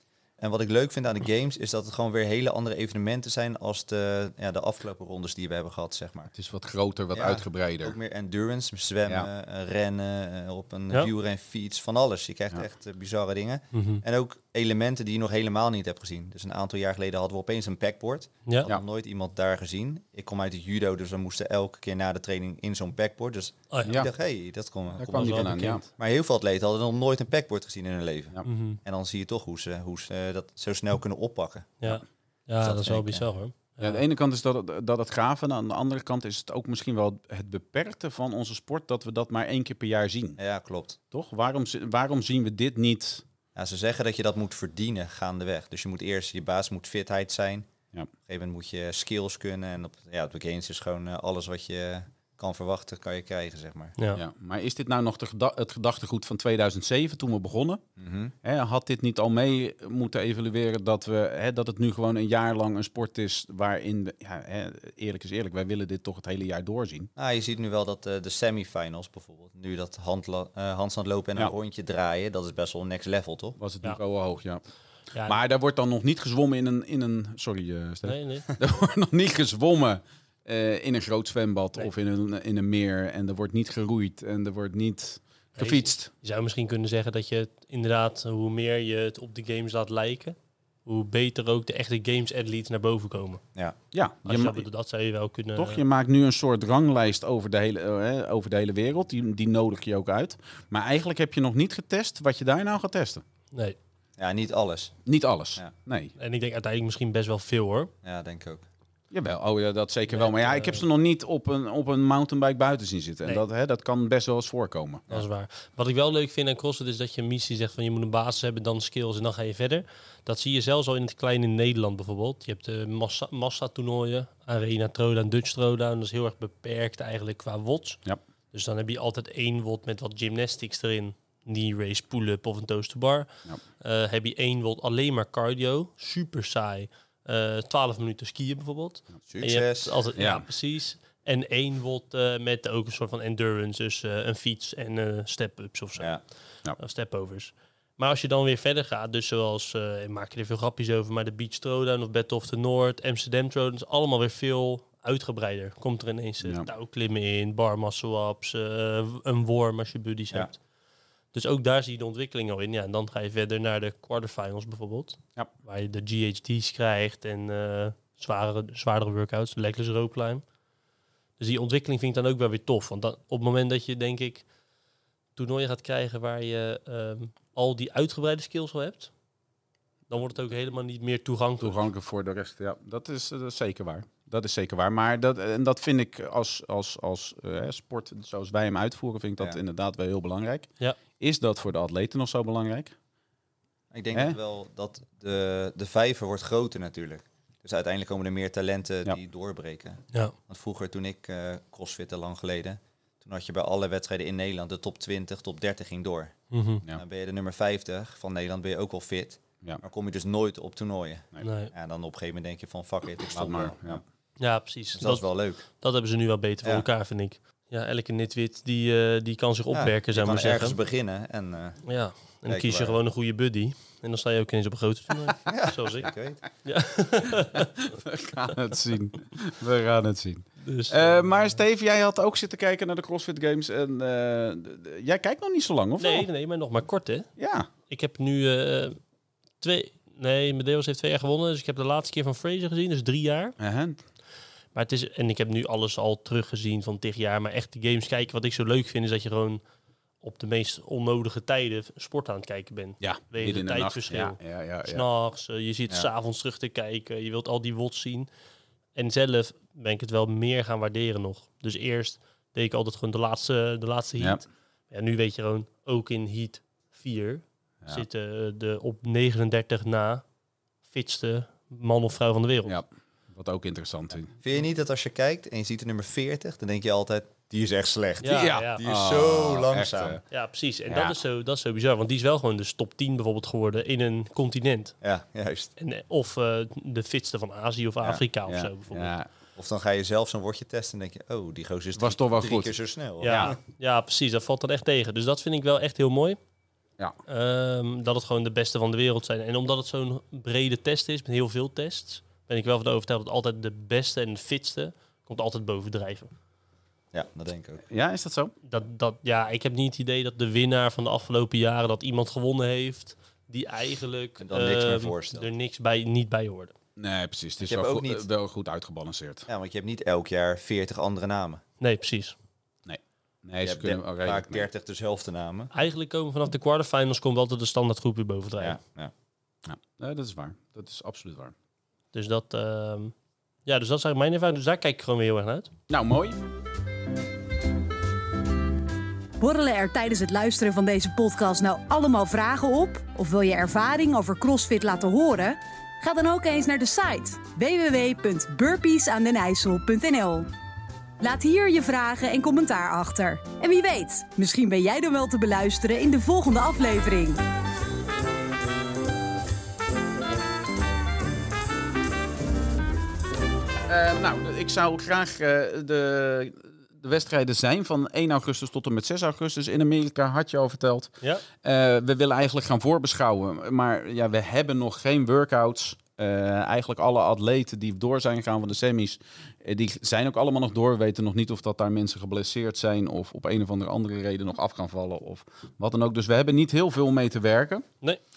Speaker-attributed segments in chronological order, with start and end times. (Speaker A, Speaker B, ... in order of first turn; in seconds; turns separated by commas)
Speaker A: 0.4-6.3, Speaker B: 6.3-8.0, Speaker A: 7.1-31.9, Speaker C: 13.7-14.0, Speaker B: 25.0-25.8, Speaker C: 25.1-25.9, Speaker C: 28.4-28.8, Speaker C: 31.8-34.0, Speaker A: 32.6-33.2, Speaker B: 33.8-40.4, Speaker A: 40.4-41.0, Speaker B: 41.1-43.2, Speaker A: 43.5-47.7, Speaker A: 48.2-53.9, Speaker B: 54.1-57.8, Speaker A: 58.0-58.3, Speaker B: 58.4-67.1, Speaker A: 67.2-73.6, Speaker B: 73.6-74.6, Speaker C: 75.1-75.4, Speaker B: 75.2-86.1, Speaker C: 78.0-78.5, Speaker C: 85.6-93.4, Speaker B: 93.9-94.6, Speaker C: 94.2-95.8, Speaker B: 95.5-103.2, Speaker A: 104.2-105.0, Speaker B: 105.0-106.1, Speaker C: 106.2-107.9, Speaker A: 108.0-108.6, Speaker B: 109.1-115.0, Speaker C: 110.1-110.8, Speaker C: 115.1-146.2, Speaker A: 139.3-140.0, Speaker B: 140.2-140.4, Speaker C: 146.8-160.6, Speaker C: 161.3-170.4, Speaker C: 171.4-174.4, Speaker C: 175.3-179.1, Speaker C: 180.1-181.8, Speaker B: 181.6-192.9, Speaker A: 193.9-206.3, Speaker C: 206.5-206.8, Speaker A: 206.9-214.0, Speaker C: 211.4-211.7, Speaker B: 213.3-214.0, Speaker C: 214.4-220.8, Speaker A: 214.9-215.6, Speaker A: 219.7-221.8, Speaker C: 221.8-226.1, Speaker A: 222.5-223.0, Speaker A: 225.4-226.4, Speaker C: 226.6-227.7, Speaker B: 227.5-236.2, Speaker C: 230.6-231.5, Speaker C: 236.0-237.3, Speaker B: 237.4-237.7, Speaker C: 237.9-239.0, Speaker C: 239.6-243.5, Speaker B: 243.6-244.0, Speaker C: 244.7-249.6, Speaker C: 250.2-258.3, Speaker B: 253.0-255.0, Speaker C: 258.9-270.2, Speaker C: 270.9-272.8, Speaker B: 272.6-274.3, Speaker A: 274.4-280.2, Speaker C: 278.2-278.8, Speaker B: 278.3-280.2, Speaker C: 280.3-284.9, Speaker A: 285.0-285.7, Speaker C: 285.8-289.1, Speaker B: 288.5-289.3, Speaker A: 289.6-293.6, Speaker B: 291.9-293.5, Speaker C: 293.2-296.4, Speaker C: 297.3-306.3, Speaker A: 307.1-307.8, Speaker B: 307.9-308.5, Speaker C: 308.6-316.7, Speaker A: 314.4-315.5, Speaker B: 317.0-319.5, Speaker A: 317.6-318.3, Speaker A: 319.5-321.6, Speaker C: 321.8-322.4, Speaker B: 322.9-324.7, Speaker A: 323.6-325.7, Speaker C: 325.7-328.8, Speaker A: 328.6-329.1, Speaker B: 329.6-331.5, Speaker C: 332.1-333.1, Speaker C: 333.6-335.7, Speaker B: 335.9-336.4, Speaker D: 339.4-350.5, Speaker D: 351.2-357.4, Speaker B: 363.9-387.8